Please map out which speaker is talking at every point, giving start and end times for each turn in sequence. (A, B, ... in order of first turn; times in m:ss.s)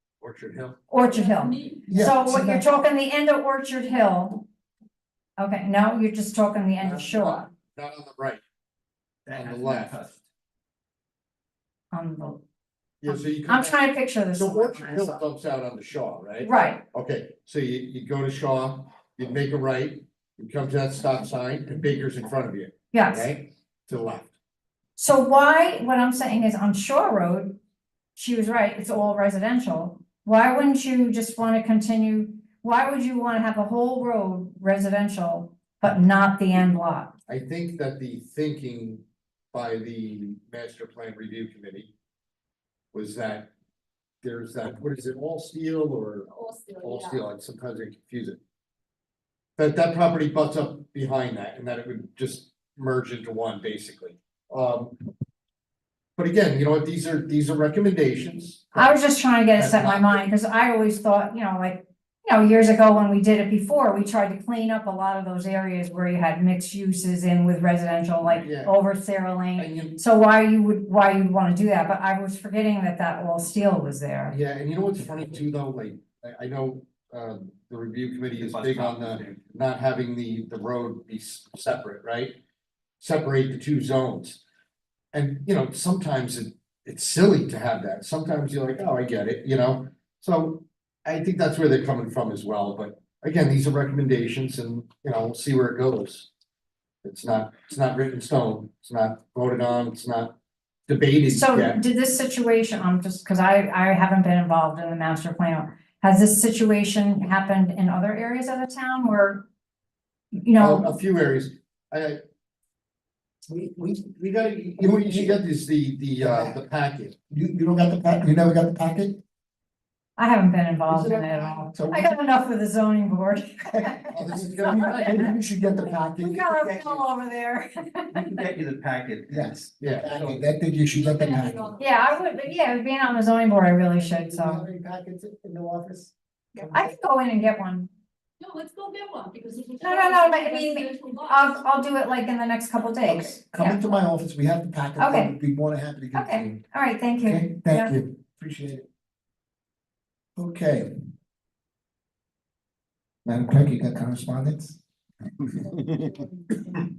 0:00.2-0:00.8 A
0:00.9-0:04.4 B
0:01.1-0:02.4 C
0:01.9-0:02.6 D
0:05.4-0:07.5 B
0:06.8-0:08.4 A
0:09.3-0:10.2 E
0:09.4-0:10.0 A
0:11.9-0:12.4 B
0:13.0-0:13.8 A
0:13.1-0:15.2 B
0:14.3-0:24.3 A
0:16.4-0:16.8 B
0:22.9-0:23.3 B
0:25.0-0:27.6 B
0:28.2-0:37.1 B
0:37.3-0:41.9 A
0:42.9-0:43.5 A
0:44.2-0:48.4 A
0:46.4-0:47.2 C
0:49.6-0:55.0 A
0:56.2-0:59.0 A
0:58.8-1:14.4 B
0:59.5-1:00.2 A
1:08.3-1:08.8 A
1:09.6-1:10.0 A
1:14.3-1:22.4 A
1:18.4-1:19.4 E
1:23.0-1:24.4 A
1:25.1-1:36.3 A
1:37.0-1:40.4 A
1:40.9-1:41.8 A
1:41.3-1:49.4 B
1:50.3-1:50.9 B
1:50.6-1:52.2 A
1:53.5-1:55.4 D
1:54.8-1:57.2 A
1:56.2-1:56.6 D
1:57.3-1:59.2 D
2:00.2-2:04.1 B
2:00.9-2:02.1 D
2:03.7-2:06.6 D
2:04.1-2:05.2 A
2:04.7-2:05.3 B
2:06.2-2:08.3 B
2:06.6-2:07.0 E
2:08.1-2:09.4 E
2:09.3-2:11.8 D
2:09.8-2:10.4 A
2:10.9-2:11.7 C
2:11.8-2:14.6 B
2:14.1-2:17.0 D
2:16.6-2:17.9 B
2:18.4-2:21.4 C
2:19.8-2:23.8 B
2:23.0-2:26.6 D
2:25.0-2:25.3 B
2:26.1-2:28.0 B
2:27.2-2:28.9 D
2:30.4-2:30.9 D
2:33.2-2:34.8 D